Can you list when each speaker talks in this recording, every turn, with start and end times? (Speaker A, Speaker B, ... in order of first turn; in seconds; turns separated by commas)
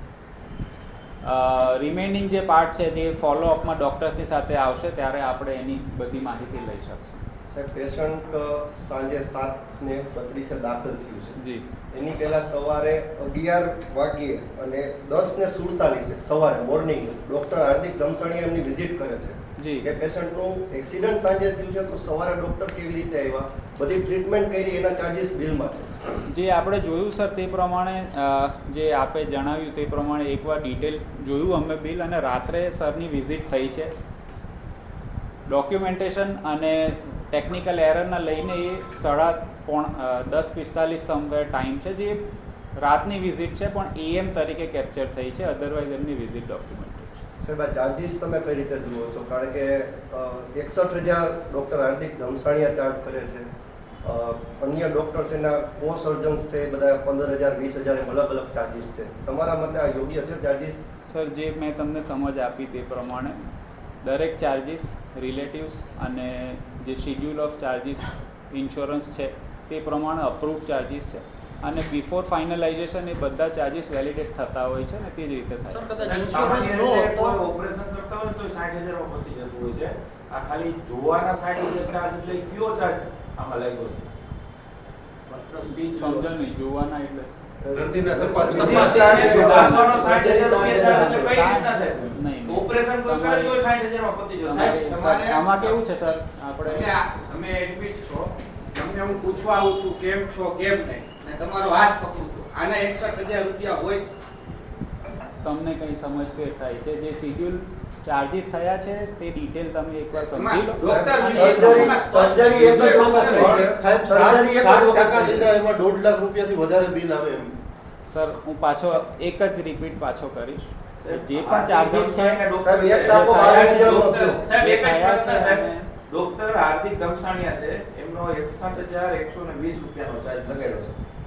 Speaker A: 1.2-7.2, Speaker B: 7.5-11.4, Speaker A: 11.4-11.7, Speaker B: 11.9-26.0, Speaker A: 19.6-19.9, Speaker A: 26.3-33.9, Speaker A: 35.5-42.2, Speaker A: 42.8-47.2, Speaker B: 47.4-53.5, Speaker B: 54.0-60.8, Speaker A: 61.1-63.4, Speaker A: 64.0-76.2, Speaker C: 75.8-77.4, Speaker D: 76.0-84.0, Speaker D: 85.3-86.3, Speaker A: 85.9-87.4, Speaker B: 87.6-91.5, Speaker E: 87.7-89.7, Speaker D: 88.5-94.8, Speaker C: 88.6-89.1, Speaker A: 88.7-93.6, Speaker A: 94.4-96.9, Speaker C: 94.5-95.8, Speaker C: 96.7-104.0, Speaker A: 105.4-113.6, Speaker C: 110.2-113.5, Speaker B: 110.8-115.6, Speaker E: 112.7-117.5, Speaker A: 118.1-122.4, Speaker D: 121.0-131.0, Speaker B: 122.6-124.4, Speaker A: 123.1-125.9